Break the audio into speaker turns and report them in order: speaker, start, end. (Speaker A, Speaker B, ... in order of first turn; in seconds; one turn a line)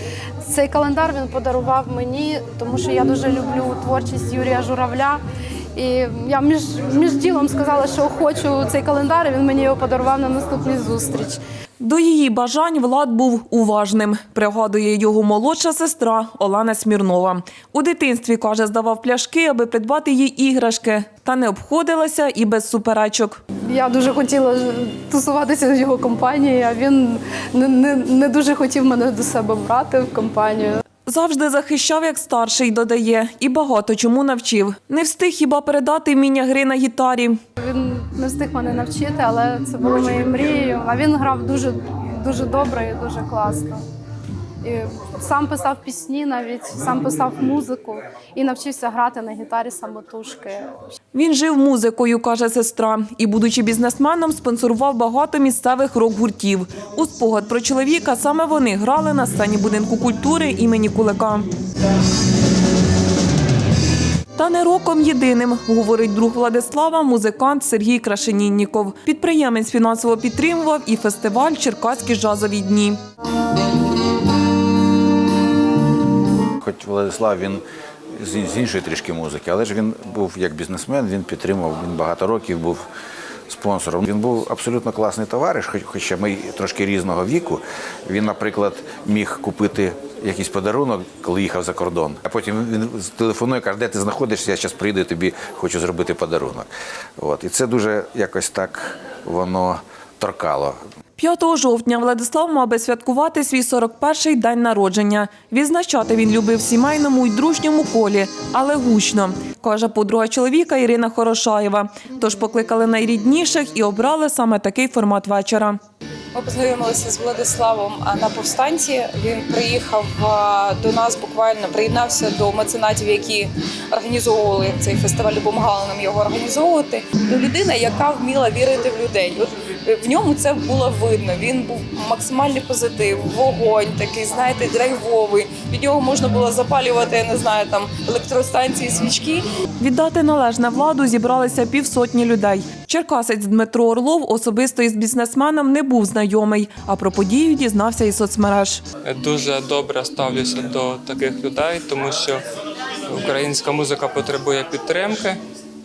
Speaker A: 0.4-5.2
Speaker A: 5.8-11.4
Speaker B: 11.8-23.4
Speaker A: 23.7-30.8
Speaker B: 31.1-37.4
Speaker A: 37.6-43.8
Speaker A: 44.6-50.7
Speaker B: 51.1-61.5
Speaker B: 64.3-73.0
Speaker C: 76.6-77.6
Speaker C: 78.2-82.8
Speaker C: 83.5-100.8
Speaker B: 101.2-115.8
Speaker D: 116.3-139.4
Speaker B: 139.8-148.8
Speaker E: 149.0-152.4
Speaker E: 153.1-155.4